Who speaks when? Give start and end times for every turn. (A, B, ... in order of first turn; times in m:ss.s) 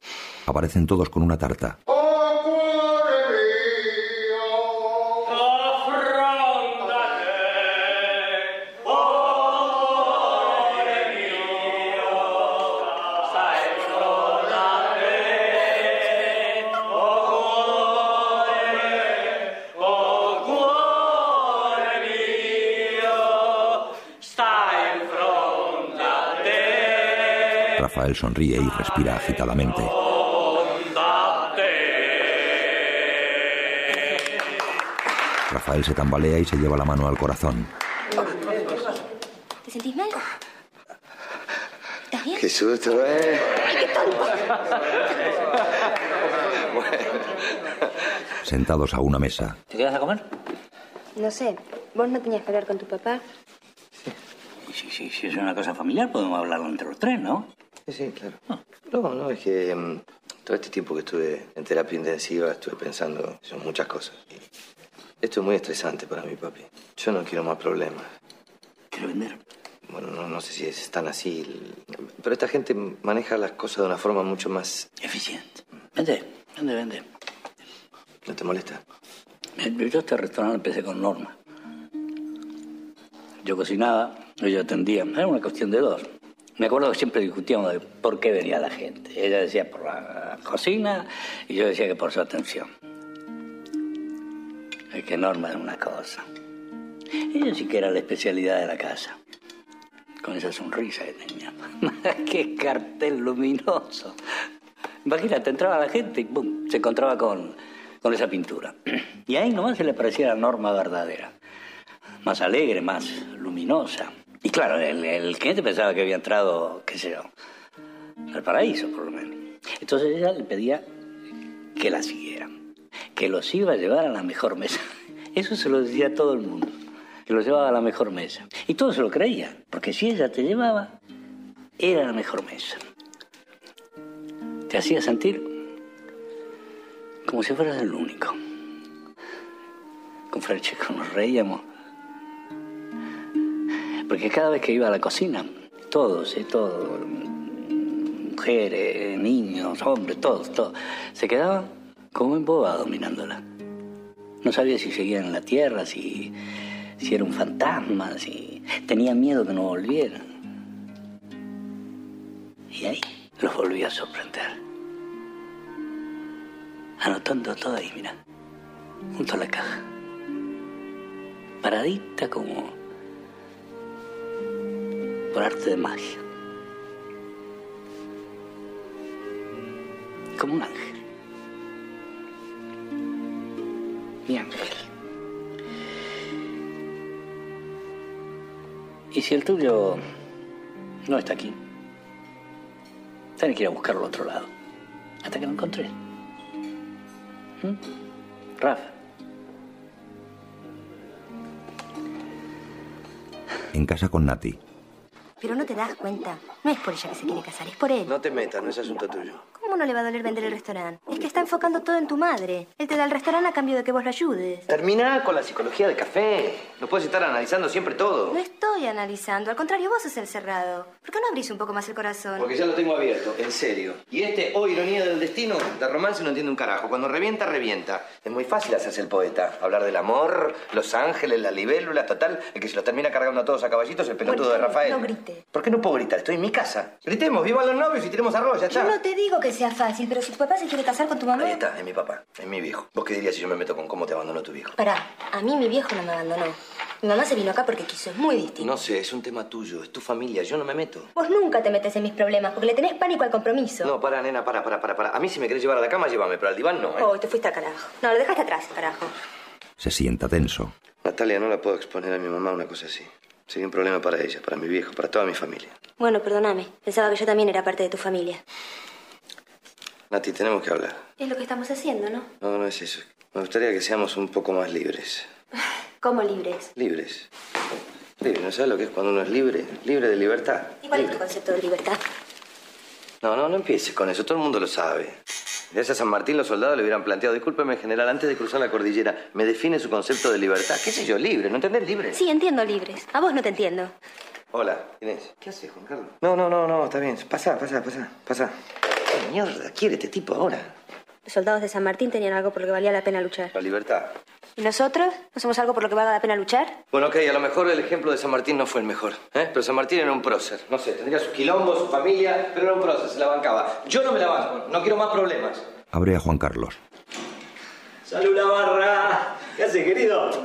0:00.5-0:01.8 A
0:27.8-0:29.9 A
0:35.5-0:37.7 A
0:39.6-0:40.2 B
0:42.1-0:42.5 B
0:42.3-0:43.6 C
0:43.8-0:44.2 B
0:46.5-0:47.7 C
0:48.4-0:49.6 A
0:49.7-0:50.2 D
0:51.2-0:53.2 B
0:54.7-0:57.5 D
0:57.9-1:04.3 C
1:05.2-1:08.1 C
1:08.9-1:09.4 D
1:09.9-1:14.9 C
1:15.0-1:17.0 D
1:18.3-1:18.8 C
1:19.6-1:21.3 D
1:23.4-1:32.7 D
1:34.9-1:36.3 D
1:37.2-1:39.2 D
1:40.2-1:44.2 D
1:45.0-1:51.3 D
1:52.2-1:57.3 D
1:58.3-2:00.8 D
2:01.8-2:02.5 D
2:03.2-2:04.8 D
2:05.3-2:10.9 D
2:11.8-2:12.8 D
2:14.7-2:15.6 D
2:17.2-2:18.4 D
2:20.3-2:21.6 D
2:24.1-2:33.4 D
2:34.4-2:36.4 D
2:37.0-2:40.3 D
2:42.7-2:44.6 D
2:47.0-2:48.2 D
2:49.1-2:49.8 D
2:51.6-2:52.8 D
2:55.3-2:56.2 D
3:00.4-3:01.0 D
3:04.3-3:04.9 D
3:09.1-3:10.0 D
3:11.1-3:11.6 D
3:13.4-3:14.5 D
3:15.2-3:15.9 D
3:18.6-3:18.9 D
3:23.7-3:24.6 A
3:25.4-3:28.1 B
3:28.1-3:29.4 C
3:29.6-3:34.7 B
3:34.7-3:38.4 C
3:38.3-3:42.5 B
3:42.4-3:59.0 C
3:54.2-3:55.4 B
3:58.7-4:01.6 B
4:01.3-4:04.8 C
4:04.8-4:08.8 B
4:08.6-4:11.1 C
4:11.2-4:13.9 B
4:13.8-4:17.1 C
4:17.0-4:19.1 B
4:19.8-4:20.7 A
4:21.0-4:25.7 C
4:26.0-4:28.4 B
4:30.1-4:31.0 C
4:31.2-4:32.3 B
4:32.4-4:35.3 C
4:36.0-4:36.7 B
4:36.8-4:37.3 C
4:38.2-4:41.2 C
4:40.8-4:42.0 B
4:43.2-4:45.2 C
4:45.7-4:52.2 C
4:52.1-4:53.9 B
4:54.5-5:00.7 C
5:01.3-5:03.5 B
5:03.5-5:04.1 C
5:04.6-5:06.8 B
5:06.9-5:15.6 C
5:15.9-5:16.8 A
5:18.1-5:20.3 E